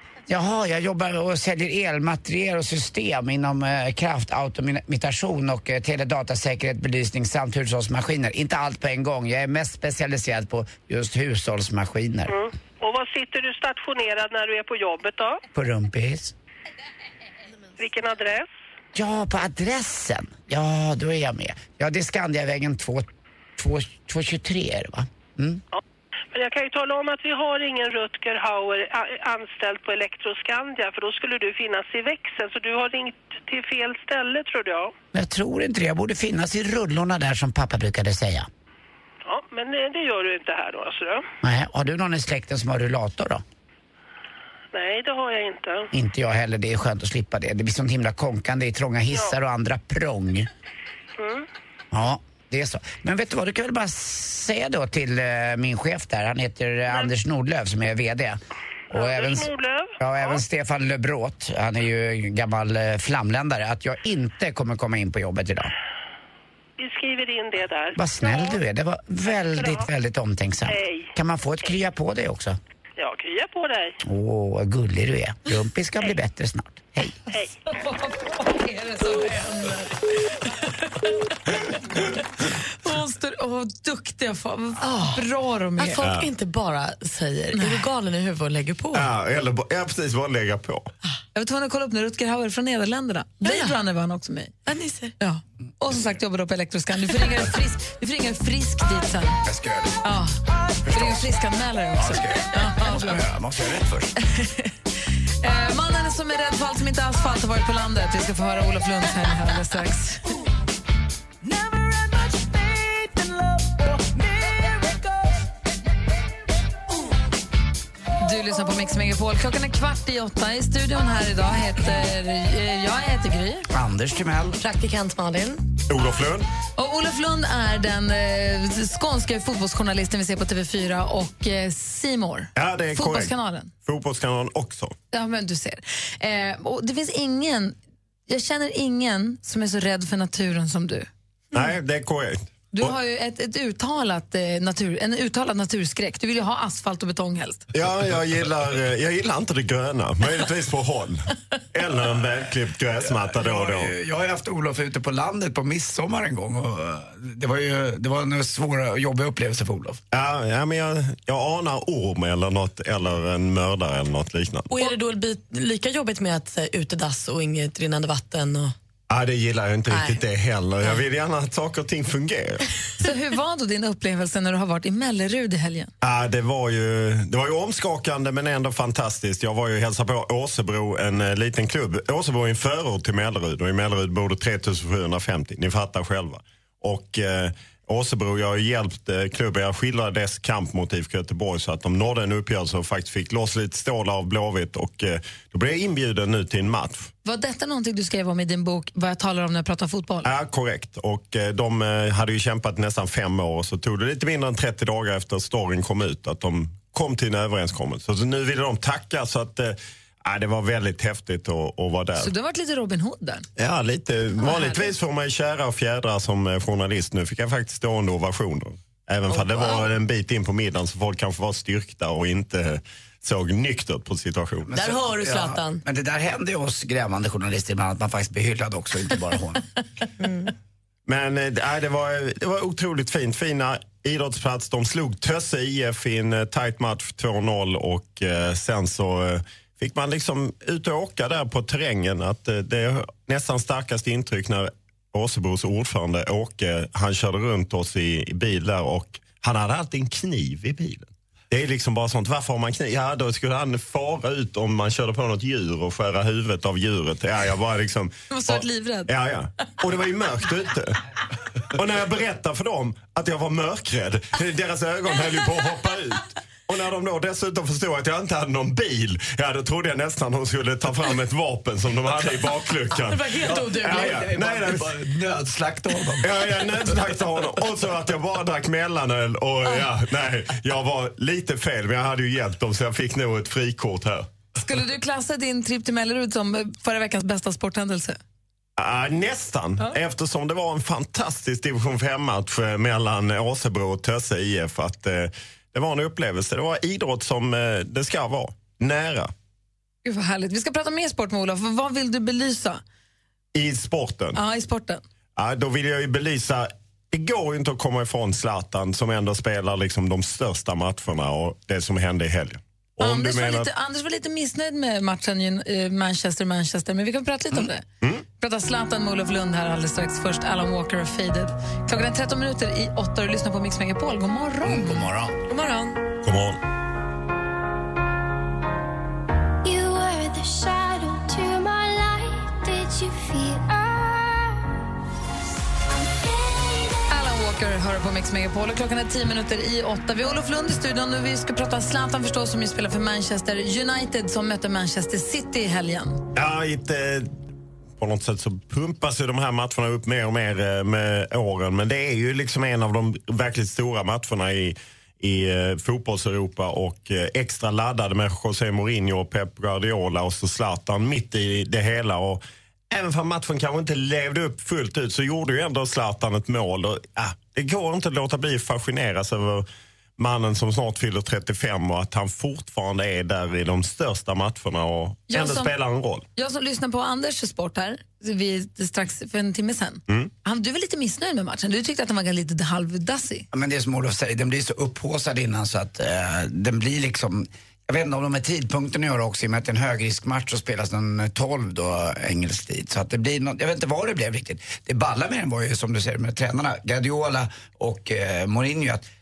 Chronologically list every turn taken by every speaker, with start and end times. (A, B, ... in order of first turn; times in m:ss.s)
0:00.3-0:12.4 A
0:12.3-0:15.4 B
0:15.5-0:16.3 A
0:17.8-0:18.5 B
0:18.9-0:25.6 A
0:26.3-0:34.9 B
0:35.1-0:38.5 A
0:39.2-0:41.2 B
0:41.4-0:43.4 A
0:44.7-0:45.9 B
0:45.9-0:50.5 A
0:51.2-0:51.5 B
0:51.9-0:58.4 A
0:58.9-1:05.7 A
0:58.9-1:00.4 B
1:06.8-1:08.6 B
1:08.0-1:12.6 A
1:09.5-1:09.9 B
1:10.7-1:11.1 B
1:13.0-1:14.0 B
1:14.0-1:17.2 A
1:17.7-1:21.1 C
1:21.9-1:26.0 C
1:24.8-1:25.2 D
1:25.8-1:29.1 D
1:26.0-1:26.3 E
1:27.6-1:27.9 C
1:28.9-1:30.9 E
1:31.3-1:34.6 C
1:33.4-1:33.8 D
1:34.7-1:35.1 D
1:35.2-1:39.4 C
1:39.4-1:40.0 A
1:40.0-1:40.4 C
1:40.8-1:41.3 A
1:40.9-1:43.2 C
1:42.0-1:44.1 A
1:44.2-1:44.7 C
1:45.4-1:50.3 C
1:58.2-2:03.7 C
2:03.7-2:04.6 A
2:04.6-2:05.7 D
2:05.9-2:06.5 E
2:06.8-2:13.7 C
2:12.6-2:15.0 E
2:15.1-2:17.8 C
2:18.3-2:21.1 C
2:21.5-2:22.9 E
2:22.7-2:27.7 C
2:27.7-2:33.9 E
2:33.1-2:40.0 A
2:40.1-2:44.7 E
2:44.7-2:48.7 D
2:49.1-2:52.6 E
2:49.9-2:50.2 D
2:53.0-2:55.9 C
2:56.0-3:17.1 E
3:17.2-3:20.3 C
3:20.2-3:32.3 E
3:32.2-3:33.5 C
3:33.6-3:44.7 E
3:34.4-3:34.9 C
3:39.3-3:39.8 D
3:44.7-3:49.6 A
3:44.8-3:45.8 D
3:50.2-3:50.5 D
3:51.1-4:21.0 E
4:18.3-4:19.1 C
4:21.7-4:35.0 E
4:33.0-4:34.4 D
4:34.1-4:36.2 A
4:36.2-4:44.3 E
4:44.6-4:48.2 C
4:48.8-4:59.3 E
5:00.0-5:02.8 C
5:03.6-5:04.4 E
5:04.4-5:05.0 C
5:05.4-5:13.7 E
5:13.0-5:17.8 C
5:18.4-5:25.1 C
5:24.6-5:25.4 A
5:25.5-5:26.0 D
5:26.2-5:26.6 E
5:29.6-5:34.7 F
5:36.2-5:36.9 F
5:37.1-5:46.2 C
5:46.4-5:47.3 E
5:48.0-6:16.3 E
6:15.3-6:15.8 C
6:16.4-6:23.5 C
6:23.5-6:39.1 A